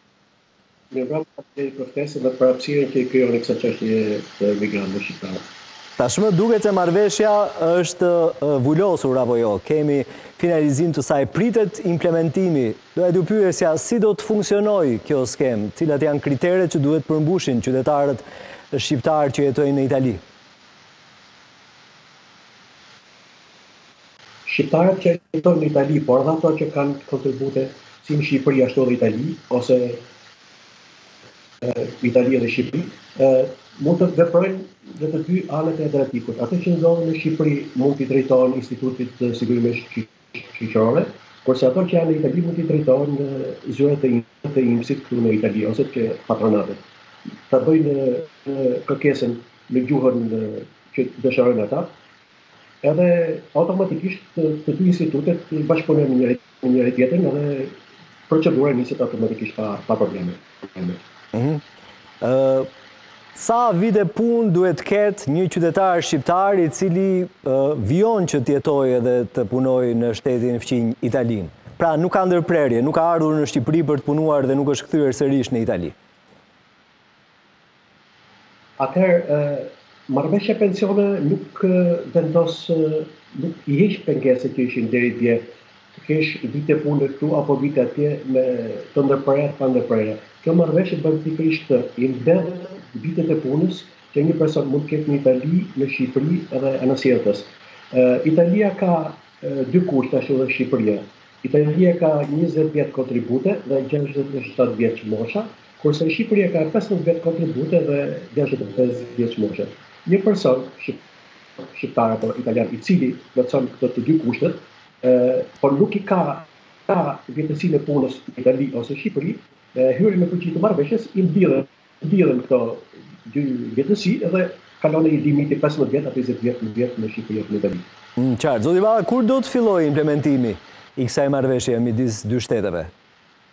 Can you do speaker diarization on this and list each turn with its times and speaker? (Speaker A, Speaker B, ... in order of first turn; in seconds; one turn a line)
Speaker A: 0.9-5.4
Speaker B: 6.0-20.2
Speaker A: 24.4-30.0
Speaker A: 31.6-46.8
Speaker A: 47.5-51.9
Speaker A: 52.8-57.7
Speaker A: 58.3-61.0
Speaker B: 61.3-61.6
Speaker B: 62.2-62.7
Speaker B: 63.3-75.9
Speaker A: 78.8-85.4
Speaker A: 85.9-111.0
Speaker A: 111.6-127.8
Speaker B: 128.2-132.9